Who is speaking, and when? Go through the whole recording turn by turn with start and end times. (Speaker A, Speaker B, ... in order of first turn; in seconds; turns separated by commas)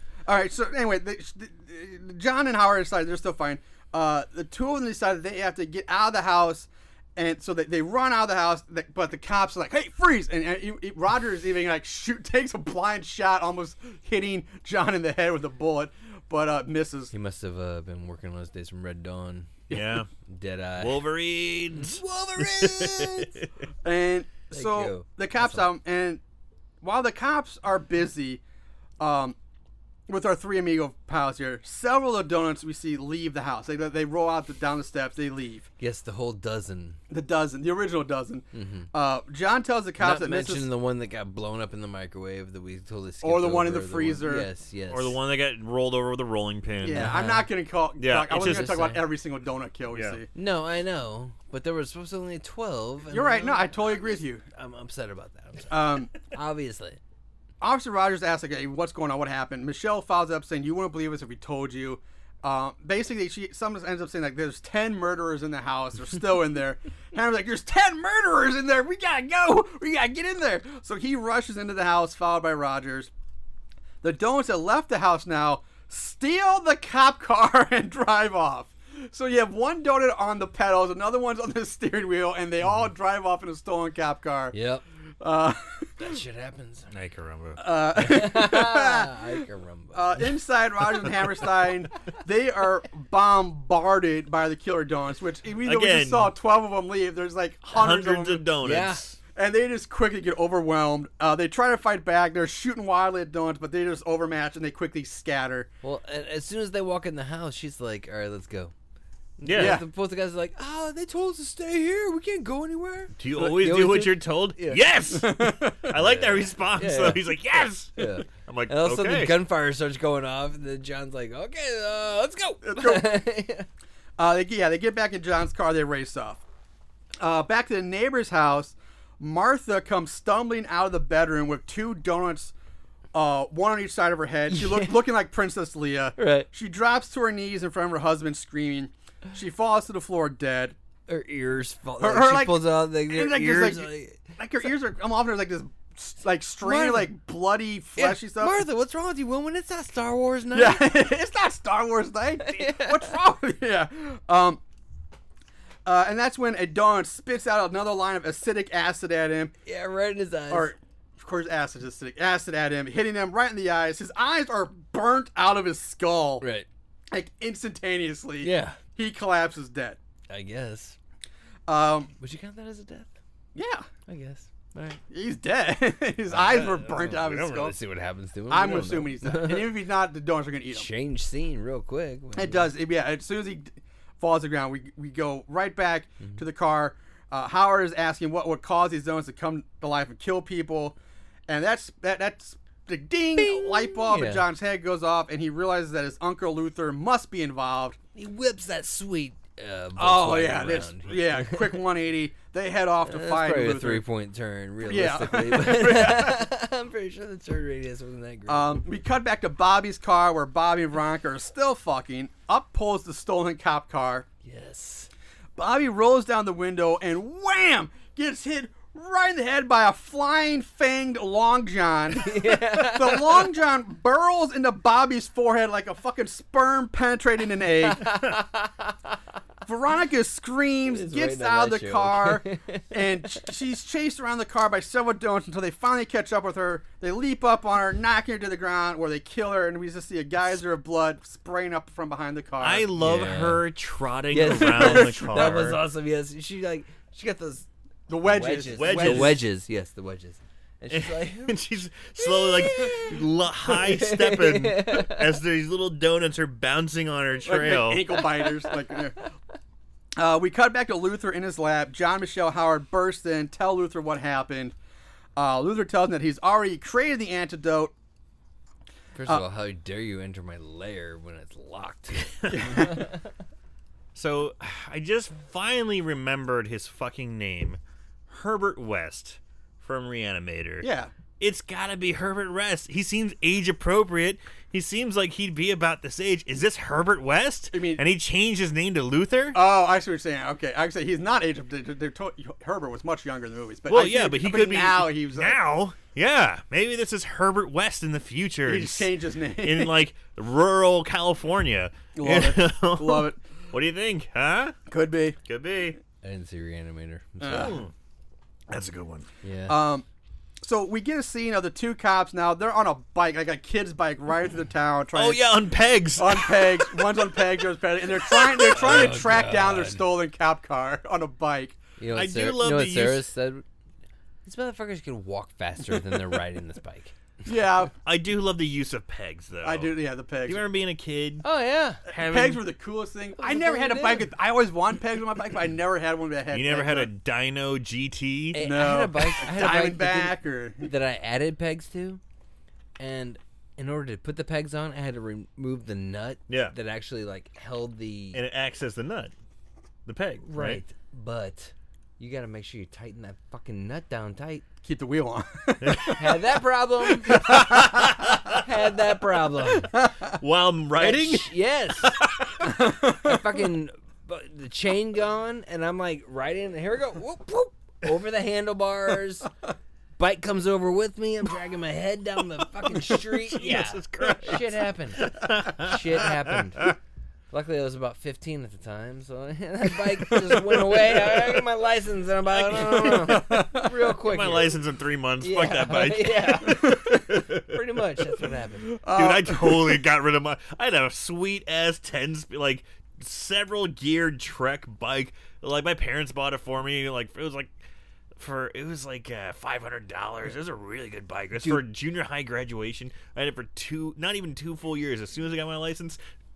Speaker A: 0.3-17.1, Speaker B: 17.1-21.1, Speaker C: 19.7-20.1, Speaker C: 20.8-23.5, Speaker B: 21.7-23.3, Speaker A: 23.8-26.2, Speaker B: 24.5-25.6, Speaker A: 26.8-28.4, Speaker A: 29.0-29.4, Speaker A: 30.1-35.7, Speaker B: 35.8-37.0, Speaker A: 37.1-40.7, Speaker B: 38.5-38.9, Speaker B: 40.0-45.1, Speaker A: 43.2-44.5, Speaker C: 44.9-47.1, Speaker A: 46.8-50.3, Speaker B: 46.9-47.5, Speaker C: 48.0-48.7, Speaker B: 48.3-49.0, Speaker C: 49.9-50.2, Speaker B: 50.3-57.0, Speaker A: 53.1-54.4, Speaker A: 55.7-56.1, Speaker A: 57.6-73.1, Speaker A: 74.0-84.5, Speaker B: 84.5-84.8, Speaker A: 85.2-86.1, Speaker B: 86.0-86.9, Speaker C: 86.9-87.6, Speaker A: 87.6-98.5, Speaker B: 87.9-90.3, Speaker C: 95.6-96.3, Speaker C: 97.7-99.2, Speaker B: 98.6-99.1, Speaker A: 99.3-105.7, Speaker B: 105.8-108.7, Speaker B: 109.4-114.8, Speaker C: 109.4-109.8, Speaker A: 109.5-109.8, Speaker C: 113.2-119.3, Speaker A: 115.1-115.9, Speaker B: 115.9-123.7, Speaker A: 122.6-123.2, Speaker A: 124.2-126.4, Speaker A: 127.2-132.5, Speaker A: 133.1-140.7, Speaker B: 134.5-135.1, Speaker B: 136.2-136.5, Speaker B: 141.1-144.2, Speaker A: 142.0-148.6, Speaker B: 146.6-147.1, Speaker B: 148.0-151.0, Speaker A: 150.5-154.6, Speaker B: 152.4-153.1, Speaker A: 155.8-159.5, Speaker B: 159.7-160.7, Speaker A: 160.5-166.4, Speaker B: 166.4-166.7, Speaker A: 167.1-170.0, Speaker B: 168.4-168.8, Speaker B: 170.3-170.9, Speaker A: 171.7-172.1, Speaker B: 172.2-173.1, Speaker A: 173.5-173.9, Speaker B: 174.1-175.0, Speaker A: 175.1-177.7, Speaker B: 176.3-179.7, Speaker C: 176.6-176.8, Speaker A: 178.5-180.9, Speaker B: 180.7-182.7, Speaker A: 182.3-190.9, Speaker A: 191.5-198.0, Speaker B: 193.4-194.4, Speaker B: 198.1-201.8, Speaker A: 200.0-204.0, Speaker B: 203.1-208.8, Speaker A: 204.8-206.5, Speaker A: 208.5-214.3, Speaker B: 214.4-215.1, Speaker A: 215.6-228.1, Speaker B: 222.2-223.5, Speaker B: 227.8-229.1, Speaker A: 229.7-242.9, Speaker B: 230.8-233.4, Speaker C: 242.6-245.8, Speaker B: 243.0-243.7, Speaker B: 244.3-247.7, Speaker A: 244.5-245.6, Speaker A: 248.1-249.4, Speaker B: 248.2-251.6, Speaker C: 248.7-249.4, Speaker C: 250.9-258.2, Speaker B: 252.2-255.4, Speaker A: 257.4-259.2, Speaker B: 258.2-258.8, Speaker A: 260.2-264.7, Speaker A: 265.4-267.9, Speaker B: 269.1-273.1, Speaker A: 272.5-273.0, Speaker C: 274.1-280.9, Speaker A: 280.8-281.1, Speaker C: 281.4-289.6, Speaker A: 287.7-288.0, Speaker A: 289.5-295.6, Speaker C: 293.9-304.8, Speaker A: 298.6-299.9, Speaker A: 302.1-303.4, Speaker A: 304.9-305.4, Speaker C: 305.4-306.0, Speaker B: 306.2-307.8, Speaker A: 307.4-307.8, Speaker C: 307.5-307.9, Speaker C: 308.7-309.3, Speaker B: 309.4-309.8, Speaker A: 309.7-310.0, Speaker A: 310.6-315.5, Speaker C: 315.1-317.2, Speaker A: 316.2-321.8, Speaker C: 318.3-319.2, Speaker B: 318.6-320.0, Speaker B: 322.0-323.6, Speaker C: 322.1-323.3, Speaker B: 324.4-327.1, Speaker A: 327.4-327.9, Speaker C: 328.0-329.9, Speaker A: 329.6-330.6, Speaker C: 330.4-331.4, Speaker B: 331.4-332.1, Speaker A: 332.1-337.1, Speaker C: 332.1-332.6, Speaker B: 333.4-334.3, Speaker C: 336.5-338.6, Speaker B: 338.5-342.2, Speaker A: 338.6-340.9, Speaker B: 343.0-348.4, Speaker C: 346.5-346.7, Speaker C: 348.3-349.3, Speaker C: 350.1-350.8, Speaker B: 350.4-354.6, Speaker A: 354.8-356.4, Speaker C: 355.8-356.2, Speaker B: 356.2-357.5, Speaker A: 357.3-358.0, Speaker C: 357.4-358.6, Speaker B: 358.5-359.9, Speaker A: 359.9-360.4, Speaker C: 360.3-362.3, Speaker B: 361.0-369.5, Speaker A: 362.6-363.4, Speaker B: 370.2-376.9, Speaker C: 373.1-376.9, Speaker B: 377.5-384.8, Speaker C: 382.5-383.4, Speaker A: 383.1-383.9, Speaker C: 384.2-387.8, Speaker B: 385.4-389.0, Speaker A: 386.6-387.2, Speaker A: 388.9-390.0, Speaker C: 389.1-397.7, Speaker C: 398.4-406.2